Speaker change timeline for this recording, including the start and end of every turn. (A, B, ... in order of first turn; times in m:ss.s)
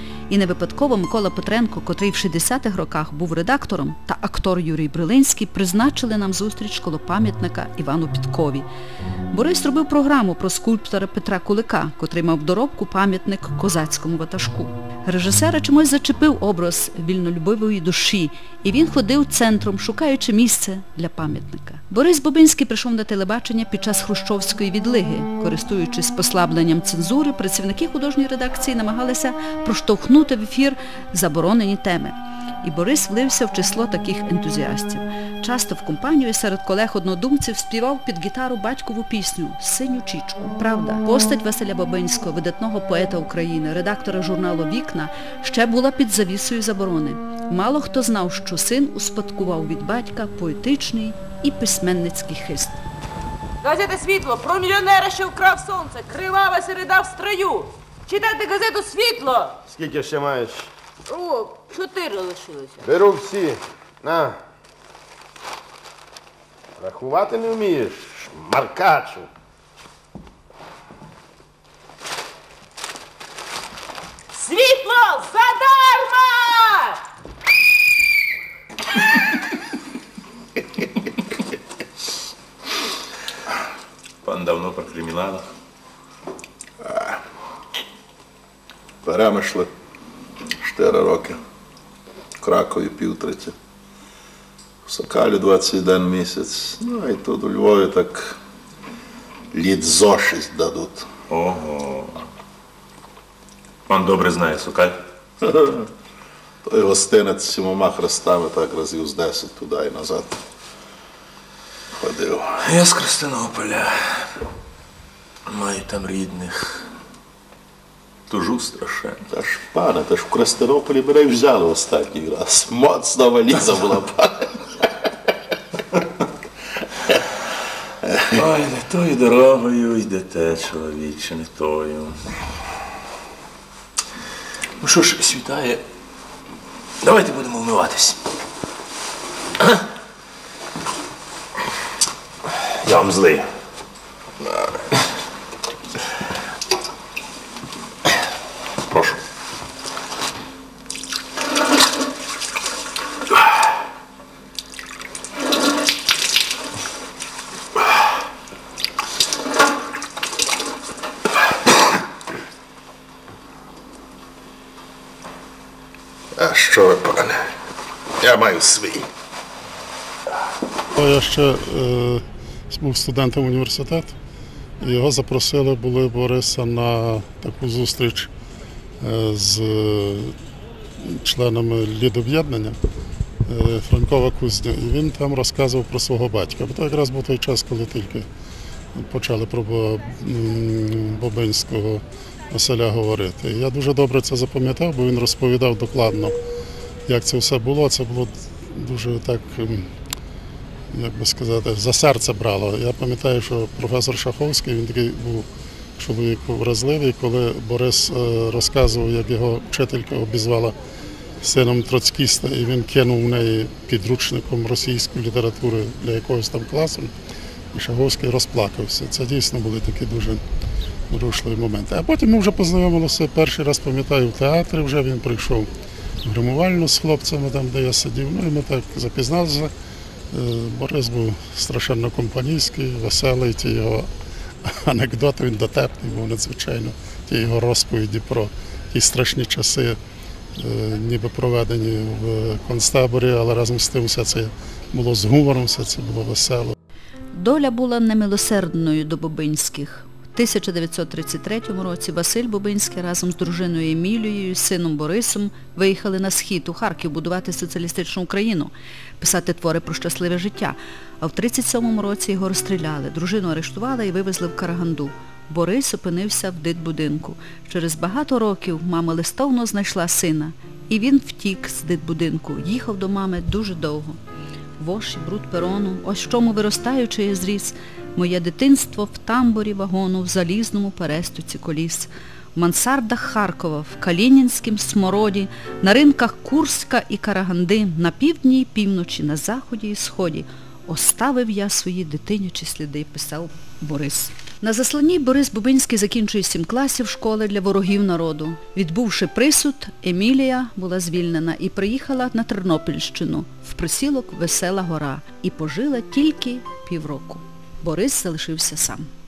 0:00.3-0:08.7 A
0:09.3-0:52.7 A
0:53.6-0:59.6 B
0:59.7-1:00.7 C
1:01.1-1:02.8 B
1:02.8-1:04.4 C
1:06.8-1:09.3 C
1:14.3-1:17.0 B
1:24.2-1:25.5 D
1:26.8-1:27.2 E
1:29.0-1:29.7 E
1:30.6-1:31.4 E
1:32.4-1:33.5 E
1:34.8-1:38.4 E
1:39.5-1:41.1 E
1:41.3-1:42.3 D
1:43.9-1:45.0 D
1:45.4-1:45.9 E
1:46.6-1:50.4 E
1:52.0-1:52.6 E
1:55.5-1:56.6 D
1:58.3-1:59.3 D
1:59.3-2:04.5 E
2:08.3-2:12.2 D
2:15.2-2:15.7 D
2:46.4-2:47.4 E
2:48.2-2:49.0 E
2:50.9-2:54.2 F
2:54.8-2:58.3 F
2:59.0-3:00.4 F
3:01.0-3:02.8 F
3:03.4-3:08.3 F
3:08.9-3:16.4 F
3:17.1-3:19.9 F
3:20.9-3:30.8 F
3:31.4-3:37.1 F
3:37.7-3:40.4 F
3:41.1-3:45.7 F
3:46.2-3:49.7 F
3:50.3-3:54.1 F
3:54.6-4:00.0 F
4:00.6-4:06.8 F
4:07.3-4:34.2 A
4:34.8-5:09.1 A